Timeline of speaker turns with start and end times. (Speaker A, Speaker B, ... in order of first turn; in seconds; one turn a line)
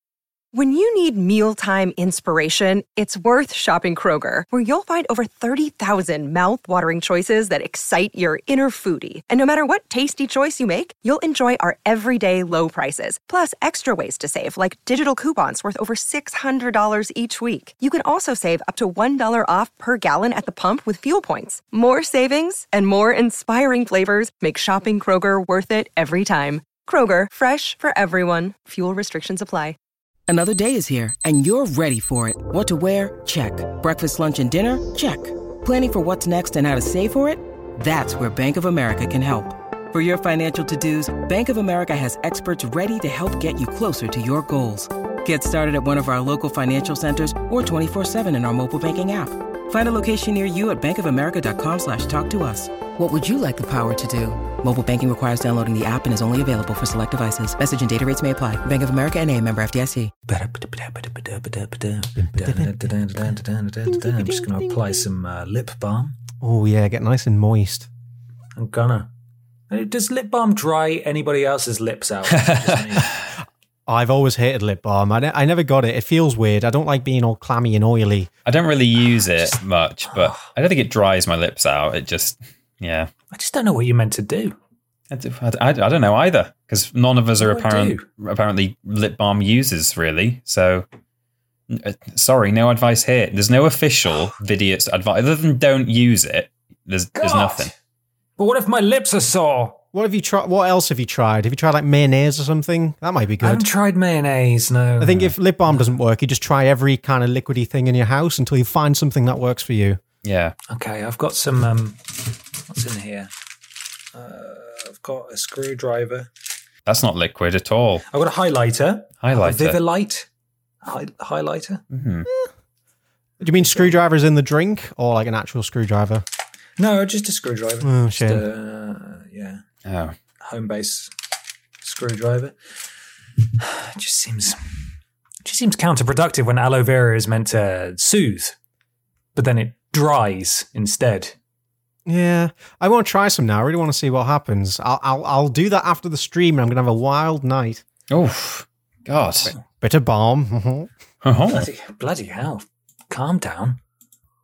Speaker A: 0.5-29.8
Speaker B: 30.3-60.1
Speaker C: 60.3-66.2
Speaker D: 62.2-62.9
Speaker D: 63.9-65.1
Speaker D: 66.4-67.9
Speaker C: 68.6-69.1
Speaker C: 69.7-73.2
Speaker E: 72.3-73.1
Speaker D: 73.9-78.3
Speaker E: 78.5-83.1
Speaker C: 80.1-80.4
Speaker C: 83.3-84.5
Speaker E: 85.1-90.9
Speaker C: 87.4-88.0
Speaker E: 91.7-97.7
Speaker C: 97.2-97.7
Speaker C: 98.4-99.8
Speaker D: 99.9-103.7
Speaker C: 103.4-105.3
Speaker D: 105.0-110.0
Speaker E: 110.2-110.6
Speaker C: 110.7-113.3
Speaker C: 114.1-116.3
Speaker E: 116.9-118.0
Speaker C: 118.1-120.3
Speaker E: 119.2-119.8
Speaker C: 120.8-121.8
Speaker E: 121.9-122.3
Speaker D: 123.4-126.2
Speaker C: 126.8-129.6
Speaker D: 127.8-128.4
Speaker E: 129.8-130.2
Speaker C: 130.4-131.1
Speaker C: 131.8-132.6
Speaker C: 133.6-134.6
Speaker C: 135.4-138.6
Speaker C: 139.3-141.3
Speaker D: 142.1-147.8
Speaker E: 148.1-149.5
Speaker D: 149.8-150.9
Speaker E: 151.2-151.7
Speaker C: 151.5-153.8